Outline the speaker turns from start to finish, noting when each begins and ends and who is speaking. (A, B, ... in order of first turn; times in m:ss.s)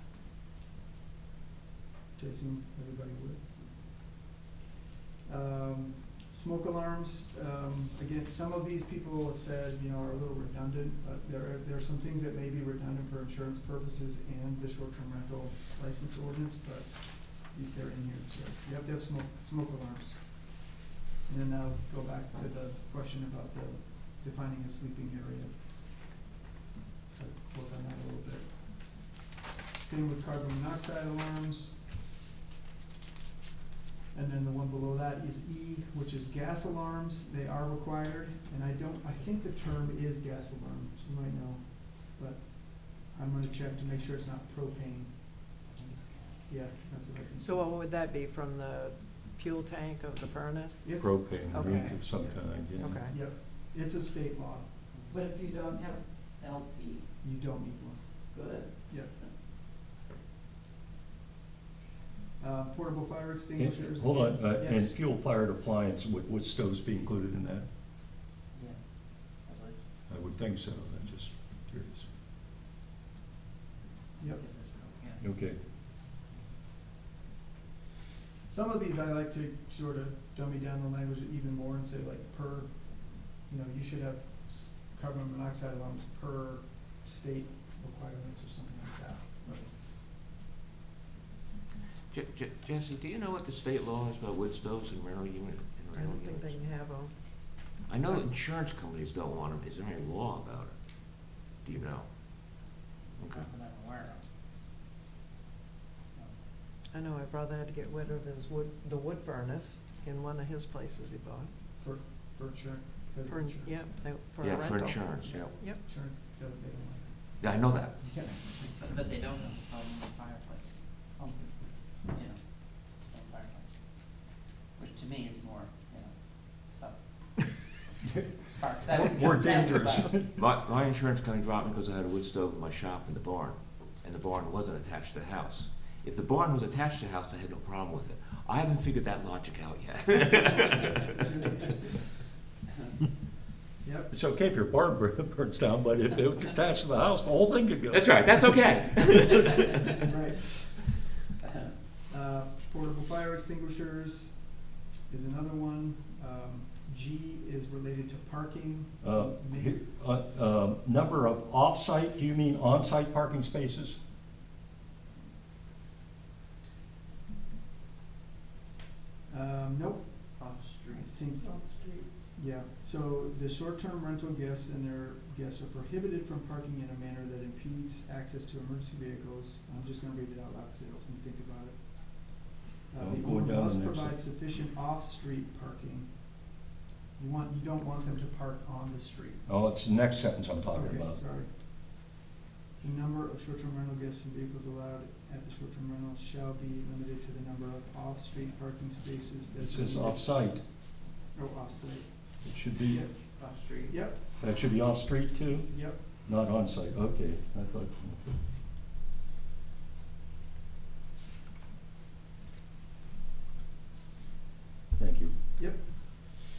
0:02.2-0:04.0 A
0:05.2-0:25.7 A
0:27.2-0:29.2 A
0:29.8-0:31.8 A
0:34.1-0:45.2 A
0:45.7-0:46.4 B
0:46.5-0:47.6 A
0:47.4-0:53.2 C
0:50.8-0:51.3 A
0:51.0-0:53.0 D
0:52.8-0:54.7 A
0:55.1-0:55.9 C
0:57.2-0:59.1 A
1:02.4-1:05.0 A
1:03.6-1:07.7 D
1:08.5-1:09.8 B
1:10.1-1:12.1 D
1:14.2-1:15.2 B
1:15.2-1:15.6 D
1:18.4-1:29.7 A
1:32.1-1:36.6 E
1:36.0-1:37.5 C
1:37.9-1:42.6 E
1:43.2-1:44.2 B
1:43.2-1:43.5 E
1:46.9-1:51.5 C
1:51.8-1:53.9 A
1:53.3-1:55.8 C
1:54.4-1:55.6 E
1:55.8-1:58.6 A
1:57.4-1:58.0 E
1:58.6-2:07.8 B
2:08.4-2:10.2 B
2:08.8-2:10.4 D
2:10.2-2:21.2 E
2:21.1-2:22.1 A
2:23.8-2:24.1 A
2:24.1-2:28.8 D
2:27.9-2:30.0 E
2:29.3-2:29.6 D
2:30.1-2:30.6 A
2:31.5-2:31.7 B
2:32.1-2:39.8 A
2:39.0-2:44.0 D
2:49.3-3:06.6 A
2:50.4-2:51.0 B
2:51.6-2:52.0 B
3:03.0-3:04.2 D
3:07.2-3:09.4 A
3:09.5-3:11.2 D
3:10.7-3:12.2 A
3:12.8-3:20.5 A
3:19.6-3:20.6 D
3:21.3-3:24.2 A
3:22.4-3:23.1 D
3:24.4-3:28.4 D
3:25.7-3:26.0 A
3:35.0-3:35.3 D